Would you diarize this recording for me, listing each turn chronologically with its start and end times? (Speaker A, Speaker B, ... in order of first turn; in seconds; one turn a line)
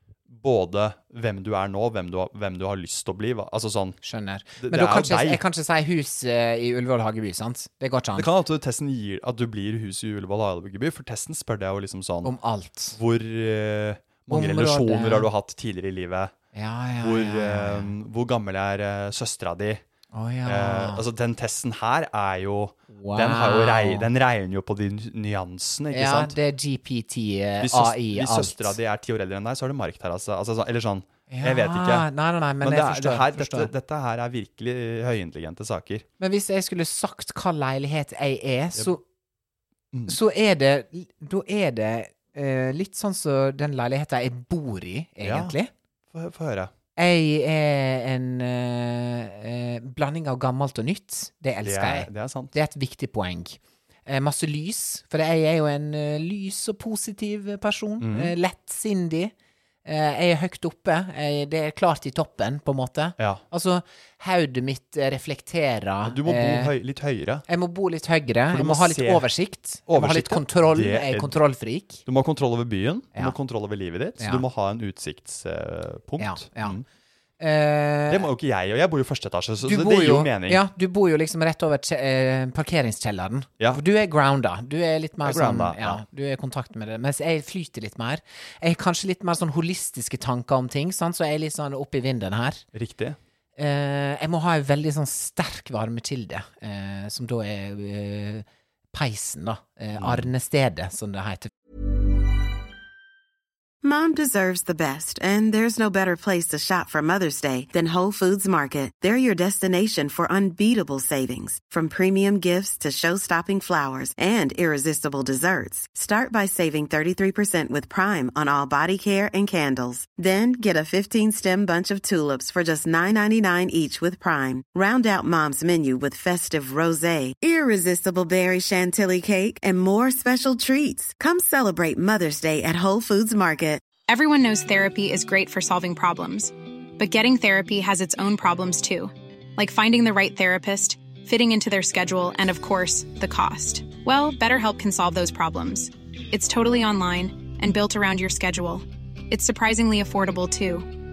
Speaker A: 0.3-4.0
Speaker B: 4.0-8.3
Speaker A: 4.6-5.4
Speaker A: 8.1-12.3
Speaker B: 12.2-13.0
Speaker A: 12.9-16.3
Speaker B: 14.3-15.3
Speaker B: 16.5-17.9
Speaker A: 17.0-19.8
Speaker B: 20.1-21.0
Speaker A: 20.4-26.4
Speaker B: 22.9-24.1
Speaker B: 25.9-28.8
Speaker A: 27.6-32.1
Speaker B: 31.3-33.7
Speaker A: 32.6-36.0
Speaker B: 36.2-39.0
Speaker A: 39.9-40.2
Speaker B: 40.1-45.7
Speaker A: 45.2-45.5
Speaker A: 46.1-46.7
Speaker B: 47.0-59.3
Speaker A: 51.6-52.5
Speaker A: 58.0-58.3
Speaker B: 59.8-66.7
Speaker A: 66.0-67.4
Speaker B: 67.5-72.0
Speaker A: 68.5-69.3
Speaker A: 69.9-71.4
Speaker A: 72.0-76.8
Speaker B: 74.2-74.4
Speaker B: 76.2-76.8
Speaker B: 77.4-78.3
Speaker A: 78.1-80.6
Speaker B: 79.6-92.6
Speaker A: 85.2-86.0
Speaker A: 92.7-93.2
Speaker B: 93.6-101.5
Speaker A: 100.0-100.3
Speaker C: 103.8-133.8
Speaker D: 134.1-150.9